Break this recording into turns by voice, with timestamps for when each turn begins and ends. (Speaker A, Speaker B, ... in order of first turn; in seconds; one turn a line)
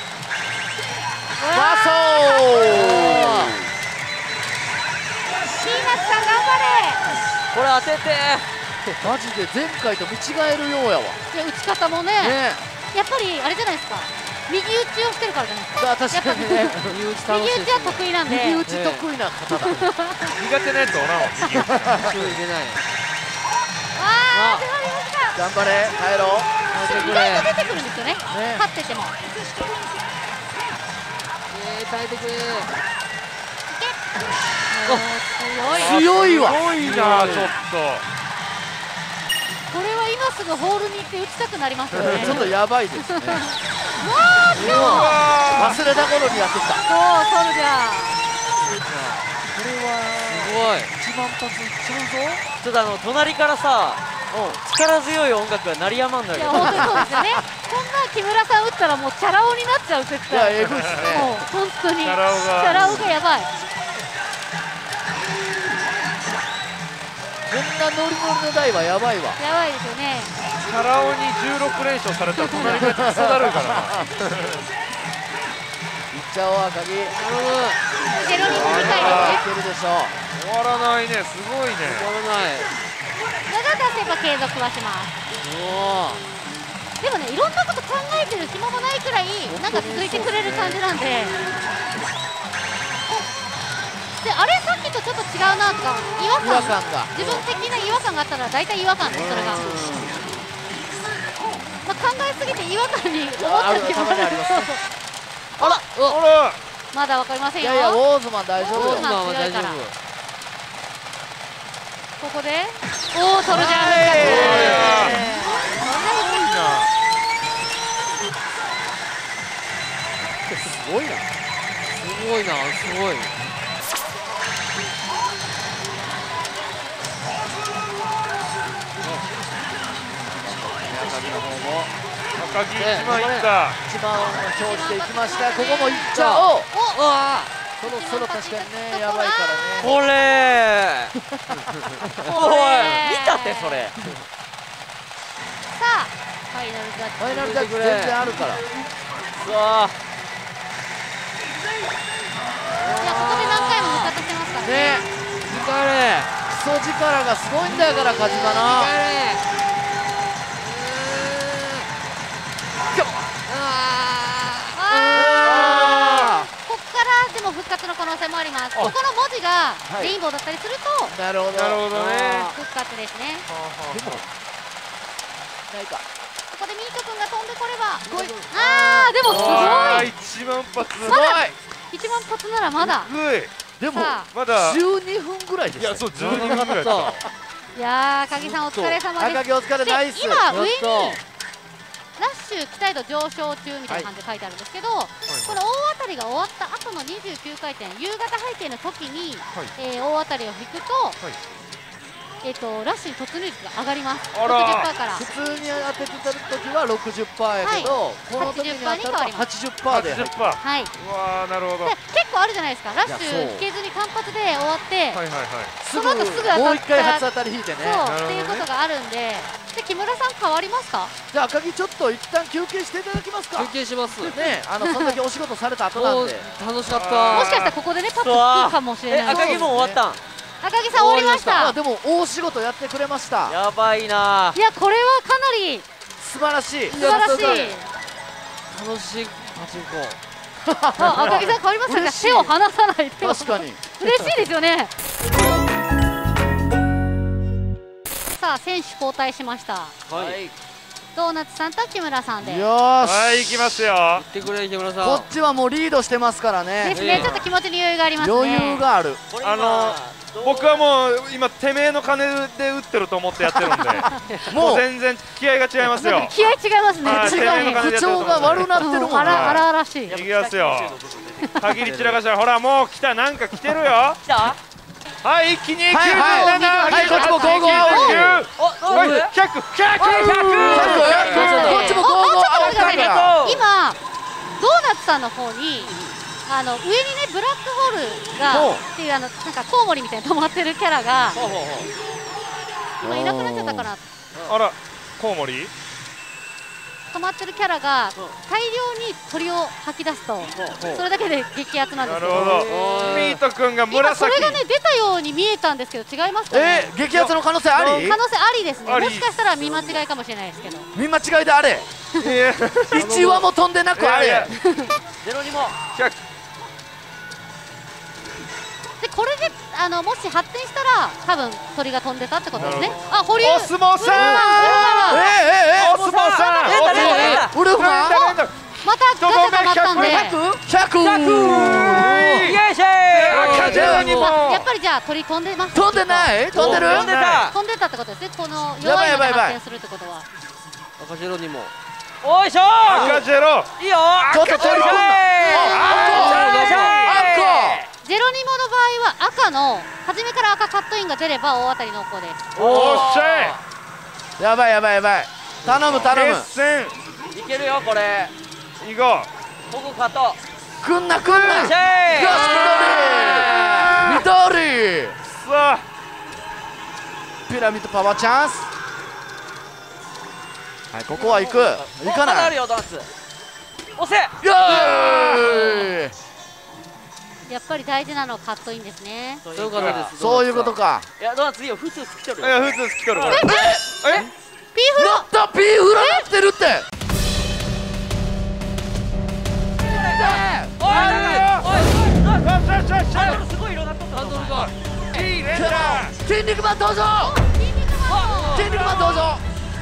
Speaker A: 1.4-3.5
Speaker B: 1.5-3.7
Speaker C: 2.7-3.5
Speaker A: 5.5-7.1
Speaker D: 7.5-8.4
Speaker B: 9.0-11.2
Speaker A: 11.3-12.4
Speaker B: 12.2-12.6
Speaker A: 12.9-18.6
Speaker B: 15.8-17.0
Speaker C: 16.8-19.1
Speaker B: 18.2-19.8
Speaker A: 19.7-20.3
Speaker E: 20.3-22.2
Speaker C: 22.0-22.8
Speaker A: 23.9-25.4
Speaker C: 24.3-24.7
Speaker B: 25.4-26.5
Speaker C: 26.7-27.5
Speaker A: 26.7-29.1
Speaker B: 28.3-28.6
Speaker C: 31.5-32.7
Speaker A: 33.7-34.0
Speaker A: 34.7-36.0
Speaker B: 35.8-36.7
Speaker E: 35.8-38.0
Speaker C: 36.7-37.5
Speaker A: 39.7-42.5
Speaker B: 42.0-43.6
Speaker A: 43.1-46.0
Speaker C: 44.6-45.2
Speaker E: 44.6-45.8
Speaker B: 45.5-46.8
Speaker A: 46.8-48.2
Speaker C: 48.9-49.2
Speaker B: 49.5-52.4
Speaker C: 50.3-50.9
Speaker D: 52.6-54.0
Speaker B: 54.3-54.6
Speaker D: 54.6-57.0
Speaker A: 56.3-63.5
Speaker B: 56.5-57.3
Speaker B: 60.3-61.4
Speaker E: 62.0-63.1
Speaker B: 62.7-63.0
Speaker B: 67.5-69.4
Speaker A: 69.4-70.3
Speaker E: 70.6-74.6
Speaker A: 72.4-72.7
Speaker B: 72.5-74.0
Speaker B: 76.1-77.1
Speaker C: 77.1-77.8
Speaker A: 78.1-79.5
Speaker B: 78.3-80.1
Speaker E: 78.5-79.4
Speaker E: 80.3-82.1
Speaker C: 81.8-82.7
Speaker A: 83.5-85.2
Speaker C: 85.4-86.2
Speaker A: 87.0-91.4
Speaker B: 89.5-90.8
Speaker C: 89.5-90.6
Speaker A: 94.2-99.7
Speaker B: 96.4-97.5
Speaker B: 99.1-100.2
Speaker A: 101.7-104.8
Speaker B: 103.4-104.8
Speaker A: 105.6-105.8
Speaker C: 105.8-106.2
Speaker E: 106.1-106.6
Speaker A: 106.9-108.0
Speaker B: 107.6-109.1
Speaker A: 108.6-109.8
Speaker C: 108.7-109.9
Speaker A: 112.2-116.6
Speaker B: 113.5-115.5
Speaker C: 113.6-114.8
Speaker E: 113.9-115.2
Speaker E: 116.0-116.9
Speaker B: 120.8-121.2
Speaker C: 122.0-123.3
Speaker B: 130.2-131.9
Speaker E: 132.3-133.8
Speaker C: 132.8-133.5
Speaker B: 133.8-136.7
Speaker A: 134.5-137.0
Speaker C: 136.1-137.7
Speaker A: 137.8-139.5
Speaker B: 137.8-139.9
Speaker D: 139.8-141.1
Speaker A: 142.2-143.9
Speaker D: 142.3-143.9
Speaker A: 145.7-147.5
Speaker B: 147.2-148.6
Speaker C: 147.5-148.2
Speaker D: 149.4-149.9
Speaker C: 152.9-154.2
Speaker A: 153.0-155.0
Speaker B: 154.6-155.1
Speaker C: 155.5-156.3
Speaker B: 156.5-158.9
Speaker C: 158.5-159.4
Speaker C: 160.6-161.9
Speaker B: 162.9-163.2
Speaker C: 163.5-166.4
Speaker A: 164.8-171.1
Speaker E: 165.4-166.4
Speaker B: 169.9-170.2
Speaker B: 171.1-171.9
Speaker E: 171.5-172.5
Speaker C: 171.9-172.5
Speaker A: 172.3-173.4
Speaker E: 173.5-174.2
Speaker B: 173.9-174.2
Speaker B: 175.7-176.0
Speaker A: 176.5-180.1
Speaker B: 178.1-180.0
Speaker E: 179.2-181.3
Speaker B: 181.0-181.6
Speaker A: 181.0-183.1
Speaker E: 182.8-183.5
Speaker B: 183.8-186.8
Speaker A: 183.9-184.3
Speaker E: 184.3-184.8
Speaker E: 185.8-187.2
Speaker C: 186.2-187.2
Speaker A: 187.7-191.2
Speaker C: 188.7-189.0
Speaker B: 189.1-190.4
Speaker C: 190.5-191.2
Speaker A: 192.2-201.2
Speaker E: 195.3-195.6
Speaker A: 202.4-205.3
Speaker E: 204.3-204.9
Speaker B: 205.1-210.4
Speaker A: 207.6-209.5
Speaker E: 209.9-211.9
Speaker A: 210.6-210.9
Speaker A: 211.8-215.2
Speaker B: 213.0-213.7
Speaker E: 215.1-215.7
Speaker B: 215.8-218.0
Speaker A: 215.9-217.2
Speaker A: 217.8-221.1
Speaker E: 218.0-218.7
Speaker B: 221.3-226.5
Speaker C: 223.5-224.3
Speaker A: 224.3-225.2
Speaker C: 225.9-227.5
Speaker E: 226.9-227.8
Speaker A: 227.3-229.7
Speaker D: 228.2-230.2
Speaker C: 229.3-229.6
Speaker B: 229.6-230.0
Speaker A: 230.6-231.8
Speaker C: 230.9-231.7
Speaker B: 231.5-233.6
Speaker D: 233.5-234.6
Speaker A: 234.5-235.8
Speaker B: 236.2-237.6
Speaker C: 236.9-237.8
Speaker A: 236.9-237.9
Speaker C: 238.7-240.2
Speaker B: 240.7-242.5
Speaker A: 241.0-244.9
Speaker B: 243.2-243.8
Speaker A: 248.3-249.9
Speaker C: 250.1-250.4
Speaker D: 250.1-250.5
Speaker A: 251.1-252.7
Speaker B: 252.4-253.5
Speaker E: 253.0-254.2
Speaker C: 254.2-255.3
Speaker B: 255.0-257.3
Speaker A: 256.8-258.8
Speaker C: 256.9-257.3
Speaker E: 257.1-257.4
Speaker B: 258.2-259.2
Speaker D: 259.3-260.8
Speaker E: 259.4-266.3
Speaker B: 263.4-264.9
Speaker A: 265.9-268.2
Speaker E: 267.0-271.0
Speaker B: 267.0-269.6
Speaker A: 268.8-270.2
Speaker D: 270.1-271.5
Speaker E: 271.6-274.2
Speaker D: 274.2-274.6
Speaker E: 275.2-281.7
Speaker B: 275.9-278.4
Speaker A: 276.0-278.2
Speaker D: 278.6-279.3
Speaker C: 278.6-279.3
Speaker D: 280.0-282.0
Speaker C: 280.5-282.0
Speaker B: 280.7-283.4
Speaker A: 281.1-284.0
Speaker D: 282.6-283.6
Speaker A: 284.6-291.4
Speaker E: 288.5-288.8
Speaker D: 291.3-291.9
Speaker A: 293.0-294.1
Speaker B: 293.0-293.9
Speaker E: 294.4-295.7
Speaker A: 297.1-302.7
Speaker D: 300.5-300.8
Speaker E: 302.0-304.6
Speaker C: 302.5-303.4
Speaker A: 303.9-306.9
Speaker B: 306.5-308.2
Speaker E: 307.1-308.2
Speaker A: 307.8-310.9
Speaker E: 308.8-310.0
Speaker B: 310.9-311.9
Speaker E: 312.2-313.2
Speaker B: 312.9-314.5
Speaker C: 313.0-313.5
Speaker E: 313.9-314.5
Speaker D: 315.2-315.8
Speaker E: 315.9-316.2
Speaker A: 319.0-325.3
Speaker E: 322.6-328.5
Speaker B: 324.1-328.4
Speaker D: 326.6-327.5
Speaker A: 326.8-327.5
Speaker A: 328.8-330.4
Speaker E: 329.2-330.4
Speaker B: 329.9-332.5
Speaker D: 331.0-334.0
Speaker E: 331.2-334.7
Speaker C: 333.4-333.8
Speaker B: 333.5-334.4
Speaker A: 333.7-340.2
Speaker B: 335.7-337.1
Speaker D: 336.5-337.5
Speaker E: 336.5-337.5
Speaker B: 338.8-339.6
Speaker C: 341.0-341.7
Speaker D: 342.2-343.2
Speaker E: 342.8-343.7
Speaker C: 342.9-343.2
Speaker D: 343.8-347.9
Speaker E: 344.2-347.2
Speaker B: 344.3-347.8
Speaker A: 345.4-346.4
Speaker C: 346.4-347.0
Speaker A: 348.0-352.4
Speaker E: 352.6-353.6
Speaker D: 352.6-353.6
Speaker B: 354.4-356.5
Speaker E: 355.7-356.9
Speaker D: 357.3-358.3
Speaker E: 358.8-359.3
Speaker D: 359.7-360.4
Speaker B: 360.8-365.2
Speaker E: 361.2-361.7
Speaker D: 361.5-362.7
Speaker C: 362.2-362.6
Speaker E: 362.4-364.2
Speaker C: 363.2-363.6
Speaker E: 365.3-365.8
Speaker B: 367.5-368.7
Speaker B: 370.9-372.5
Speaker D: 371.1-373.1
Speaker D: 373.9-374.4
Speaker B: 374.4-376.1
Speaker E: 374.7-375.5
Speaker A: 377.5-379.4
Speaker D: 379.4-383.3
Speaker C: 379.5-380.7
Speaker E: 379.7-380.0
Speaker B: 380.2-381.1
Speaker E: 382.4-384.3
Speaker A: 383.3-385.3
Speaker B: 383.3-383.9
Speaker B: 384.9-386.9
Speaker A: 385.9-386.3
Speaker D: 389.8-392.6
Speaker B: 389.9-390.8
Speaker E: 390.8-393.4
Speaker D: 393.1-394.7
Speaker C: 394.1-394.7
Speaker E: 395.1-396.2
Speaker B: 395.5-397.4
Speaker A: 397.2-399.2
Speaker D: 398.1-399.1
Speaker B: 398.5-399.4